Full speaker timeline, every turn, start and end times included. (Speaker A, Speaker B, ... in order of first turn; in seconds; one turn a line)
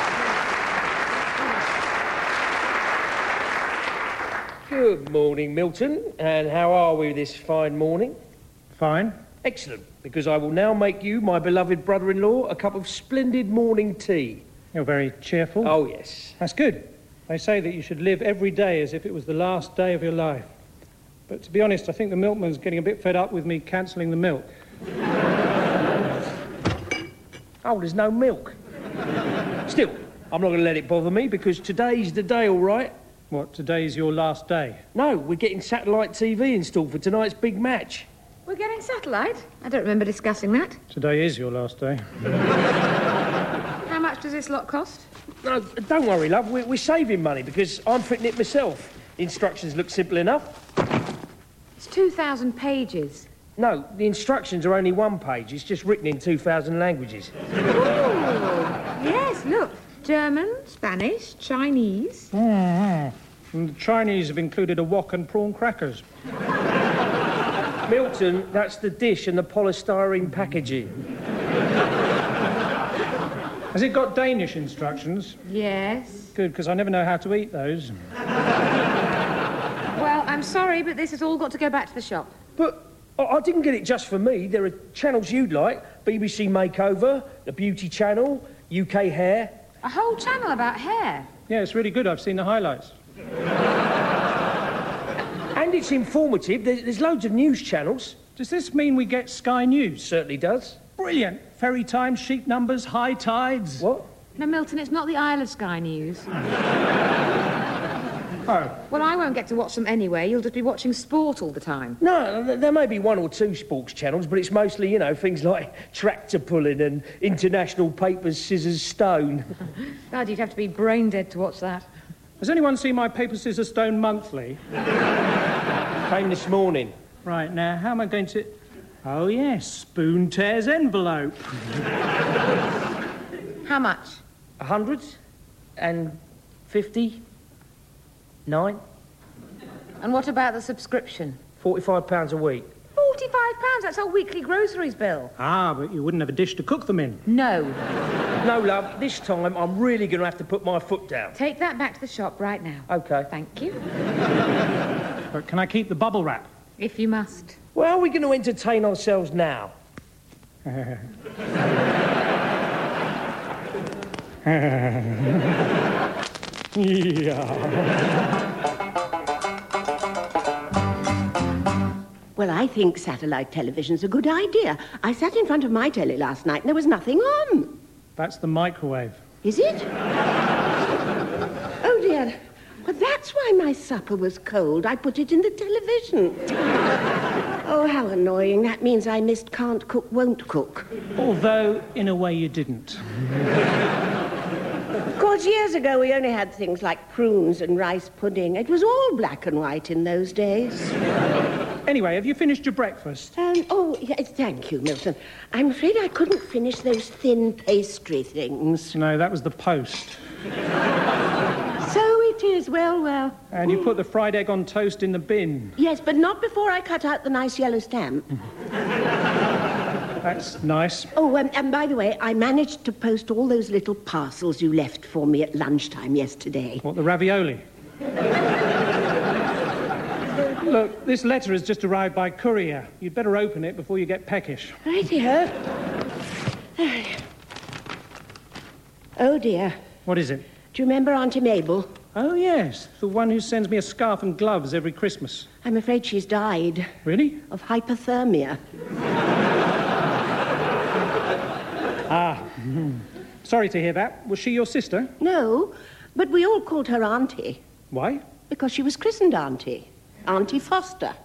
Speaker A: 4.7-8.2
Speaker B: 8.7-9.2
Speaker A: 9.4-14.4
Speaker B: 14.7-15.8
Speaker A: 15.6-16.4
Speaker B: 16.4-20.5
Speaker B: 21.3-24.5
Speaker A: 27.6-28.6
Speaker A: 29.7-32.9
Speaker B: 33.3-34.8
Speaker A: 34.9-38.1
Speaker C: 38.5-40.8
Speaker B: 40.9-42.0
Speaker C: 43.9-45.1
Speaker A: 45.4-50.6
Speaker C: 51.8-53.3
Speaker A: 53.6-57.3
Speaker C: 57.7-62.3
Speaker B: 62.3-66.0
Speaker A: 67.9-70.9
Speaker B: 73.7-75.4
Speaker C: 75.5-76.3
Speaker B: 76.3-77.9
Speaker C: 79.9-82.3
Speaker A: 82.6-89.5
Speaker C: 89.8-91.3
Speaker B: 91.5-92.9
Speaker A: 95.5-98.2
Speaker B: 98.4-100.1
Speaker A: 100.0-100.8
Speaker B: 101.0-103.9
Speaker A: 103.8-104.1
Speaker C: 104.4-106.3
Speaker B: 108.5-108.7
Speaker C: 108.8-112.0
Speaker A: 112.0-119.5
Speaker C: 120.1-121.9
Speaker B: 122.4-124.6
Speaker A: 126.1-126.9
Speaker B: 127.2-131.6
Speaker C: 133.6-134.2
Speaker A: 134.6-135.2
Speaker A: 135.8-137.2
Speaker A: 138.4-138.8
Speaker C: 140.0-141.4
Speaker A: 141.6-142.7
Speaker C: 142.9-145.3
Speaker B: 145.4-147.2
Speaker C: 147.2-147.8
Speaker A: 148.4-151.3
Speaker C: 151.3-153.8
Speaker A: 152.9-153.3
Speaker B: 155.3-156.5
Speaker C: 156.8-157.6
Speaker A: 157.7-159.7
Speaker B: 160.7-161.0
Speaker B: 164.4-165.5
Speaker B: 166.7-168.0
Speaker D: 172.3-177.8
Speaker B: 178.2-179.2
Speaker D: 179.4-179.9
Speaker D: 181.8-186.4
Speaker D: 187.6-190.9
Speaker B: 191.2-193.0
Speaker D: 195.1-200.9
Speaker B: 201.9-203.3
Speaker D: 203.4-208.9
Speaker B: 208.9-210.2
Speaker D: 211.8-213.4
Speaker B: 213.5-215.8
Speaker D: 215.8-218.3
Speaker B: 220.2-221.1
Speaker D: 221.1-226.8
Speaker B: 226.8-227.6
Speaker B: 230.6-234.8
Speaker D: 234.8-235.6
Speaker D: 236.8-237.2
Speaker D: 239.2-239.8
Speaker B: 240.1-240.4
Speaker D: 240.7-241.9
Speaker B: 242.1-245.5
Speaker D: 245.6-246.9
Speaker B: 247.0-247.4
Speaker D: 247.5-248.6
Speaker B: 252.1-255.1
Speaker D: 255.2-257.6
Speaker B: 257.9-258.2
Speaker D: 258.5-261.1